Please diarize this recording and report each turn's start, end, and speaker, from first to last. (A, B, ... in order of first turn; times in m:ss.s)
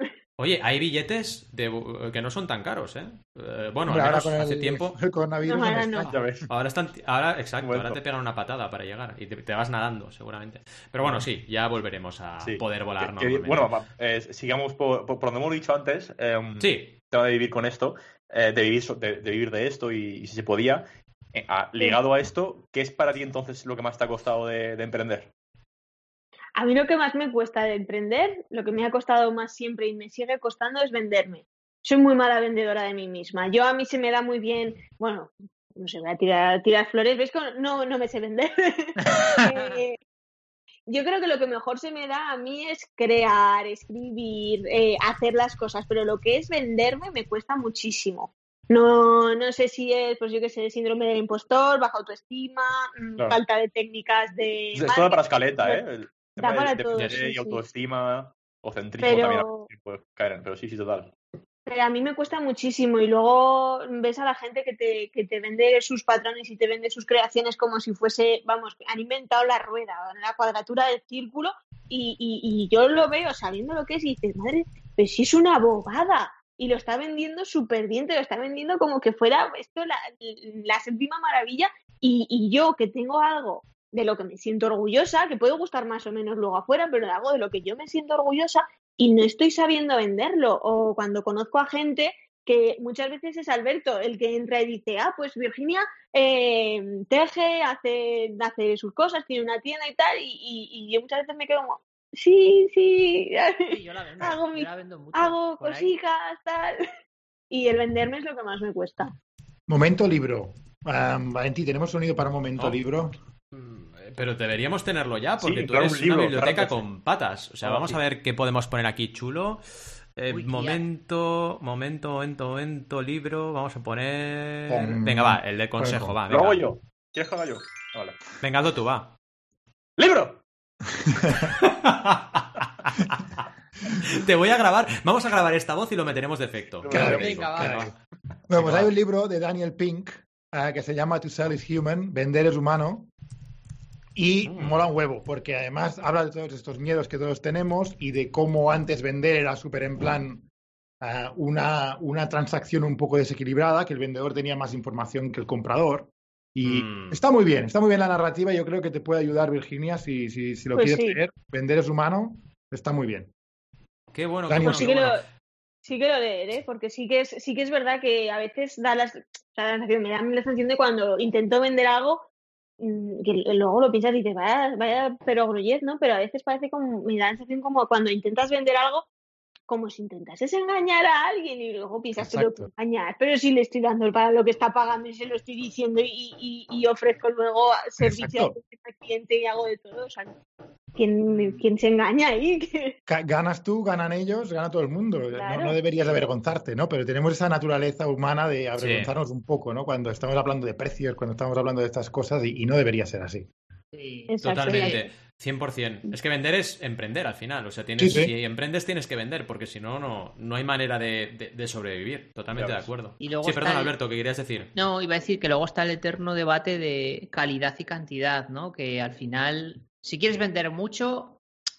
0:00.4-0:05.0 A
0:03.9-0:06.5 B
0:05.4-0:06.1 C
0:06.1-0:13.7 A
0:06.1-0:06.5 D
0:07.6-0:08.0 D
0:12.4-0:25.3 D
0:16.6-0:17.0 A
0:26.6-0:40.0 C
0:39.0-0:39.8 E
0:40.9-0:55.8 C
0:54.8-1:01.1 D
0:56.3-0:57.6 C
0:57.0-0:57.2 A
0:59.0-0:59.7 C
1:01.7-1:46.8 C
1:43.7-1:45.9 E
1:47.5-1:49.1 C
1:49.7-1:53.2 B
1:53.5-1:59.6 A
1:55.4-1:56.9 D
1:57.6-1:58.0 D
2:00.2-2:06.6 A
2:00.3-2:00.8 E
2:04.7-2:06.2 B
2:06.3-2:08.2 D
2:08.4-2:09.1 A
2:10.0-2:10.4 D
2:11.6-2:17.9 A
2:16.8-2:17.4 D
2:16.9-2:17.9 B
2:16.9-2:17.9 E
2:18.5-2:23.1 B
2:18.5-2:18.9 A
2:24.2-2:30.5 B
2:24.5-2:24.8 A
2:31.0-2:43.3 B
2:36.6-2:37.2 A
2:40.8-2:41.2 C
2:44.1-2:45.2 A
2:44.5-2:44.9 B
2:44.6-2:45.2 C
2:45.8-2:52.3 C
2:52.8-2:59.1 C
2:59.7-3:10.4 C
3:02.2-3:02.7 B
3:08.0-3:08.5 B
3:11.0-3:13.0 C
3:13.1-3:23.5 B
3:15.3-3:15.8 C
3:18.8-3:19.1 A
3:23.9-3:25.0 E
3:24.3-3:25.1 C
3:24.4-3:34.7 A
3:28.0-3:28.3 B
3:32.5-3:32.9 D
3:33.2-3:34.0 E
3:34.7-3:41.4 E